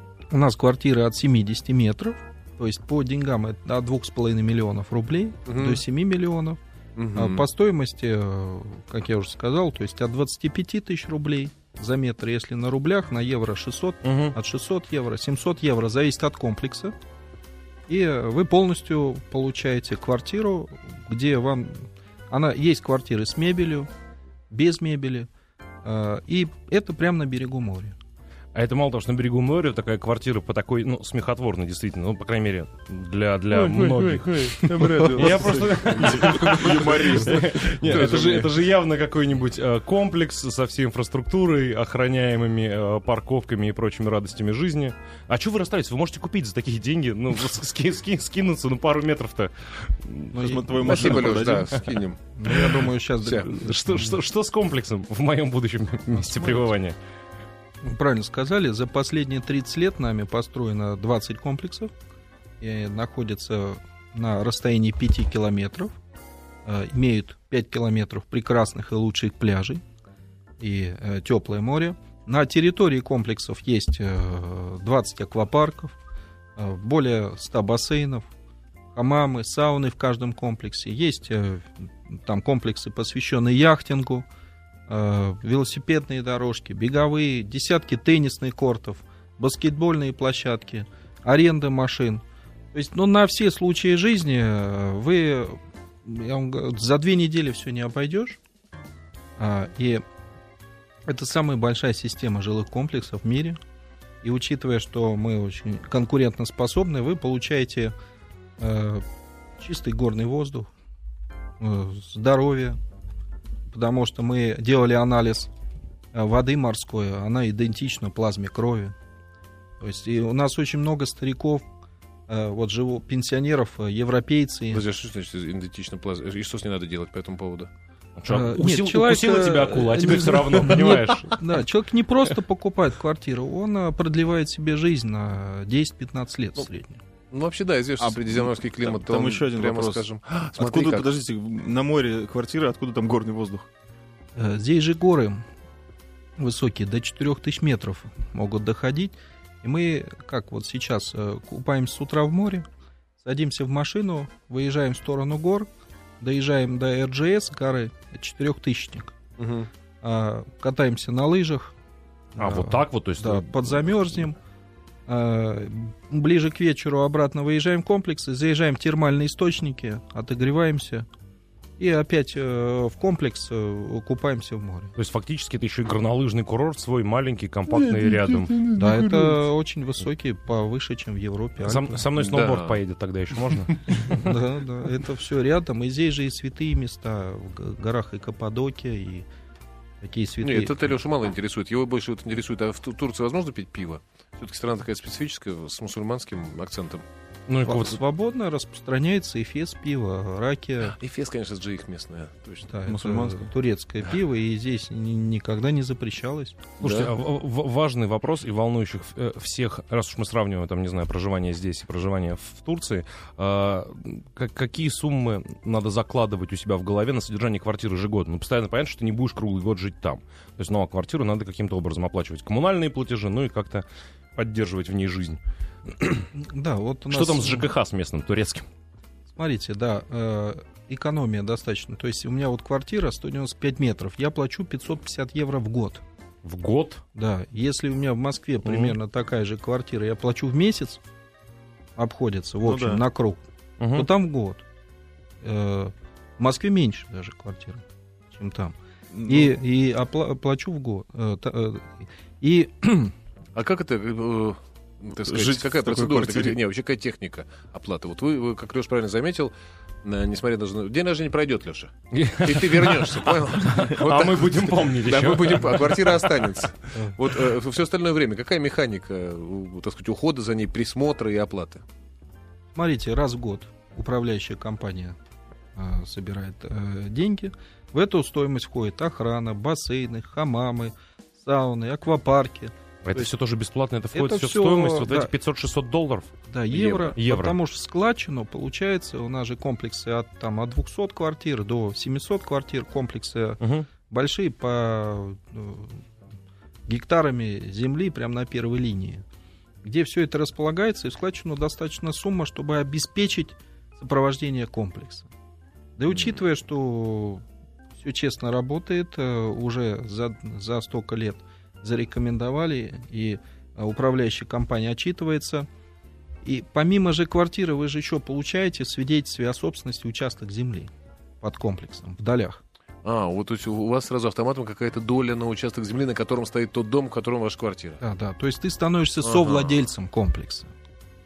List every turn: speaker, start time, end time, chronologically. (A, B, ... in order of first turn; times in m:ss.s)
0:00.3-0:06.6 A
0:05.4-0:05.8 B
0:07.0-0:07.4 B
0:07.1-0:16.9 A
0:14.0-0:14.3 C
0:17.9-0:23.9 A
0:24.5-0:25.3 A
0:25.8-0:28.0 A
0:28.5-0:50.4 C
0:33.5-0:37.0 B
0:34.9-0:38.4 D
0:37.8-0:38.5 B
0:50.3-0:51.4 A
0:50.4-0:51.7 D
0:50.8-0:52.6 B
0:52.4-0:54.2 A
0:52.4-0:52.8 C
0:53.4-0:57.0 C
0:56.2-0:56.6 A
0:57.8-1:01.9 A
1:02.6-1:05.9 A
1:06.6-1:09.8 A
1:10.6-1:15.9 A
1:16.6-1:18.3 A
1:18.9-1:24.2 A
1:24.9-1:32.2 A
1:32.7-1:38.4 A
1:39.4-1:40.0 A
1:41.0-1:43.6 A
1:44.2-1:47.9 A
1:48.6-1:49.0 A
1:49.6-1:50.7 A
1:51.6-1:52.8 A
1:53.7-1:55.5 A
1:56.1-1:58.9 A
1:59.8-2:01.6 A
2:02.3-2:04.8 A
2:04.7-2:07.7 B
2:08.2-2:11.3 C
2:08.3-2:17.0 A
2:10.9-2:11.2 B
2:17.3-2:21.1 B
2:18.0-2:23.6 D
2:24.4-2:25.4 A
2:26.4-2:32.6 A
2:33.2-2:35.7 A
2:36.2-2:39.1 A
2:39.4-2:39.7 B
2:40.0-2:41.7 A
2:42.4-2:44.4 A
2:42.4-2:43.8 C
2:45.1-2:51.0 A
2:51.8-2:54.9 A
2:55.0-2:58.6 C
2:57.7-2:59.3 B
2:58.7-3:01.9 A
3:01.6-3:04.1 C
3:02.2-3:02.8 B
3:04.0-3:09.3 A
3:10.0-3:10.9 A
3:10.4-3:17.0 B
3:17.5-3:18.0 C
3:17.6-3:20.9 A
3:20.8-3:22.7 B
3:22.6-3:26.6 A
3:22.9-3:23.5 D
3:26.8-3:46.3 C
3:26.8-3:27.1 B
3:46.4-3:47.7 A
3:47.1-3:48.6 C
3:49.3-3:56.0 A
3:56.4-3:57.0 C
3:57.1-4:01.0 A
3:58.6-3:59.0 C
4:02.0-4:04.6 A
4:02.6-4:03.0 D
4:03.8-4:04.1 C
4:05.4-4:08.7 A
4:09.1-4:09.5 D
4:09.3-4:13.1 A
4:13.5-4:19.5 B
4:15.2-4:16.6 D
4:20.0-4:21.9 B
4:22.1-4:26.3 C
4:22.4-4:31.8 B
4:32.7-4:35.2 A
4:35.7-4:43.3 A
4:43.0-4:47.6 C
4:44.1-4:45.3 A
4:46.5-4:56.0 A
4:46.7-4:47.1 B
4:53.6-4:53.9 C
4:56.8-4:59.2 A
4:59.8-5:05.3 A
5:06.0-5:07.4 A
5:06.1-5:06.4 B
5:08.0-5:15.7 A
5:16.4-5:20.9 A
5:21.4-5:22.6 A
5:23.0-5:28.0 B
5:28.0-5:30.7 A
5:29.2-5:29.8 B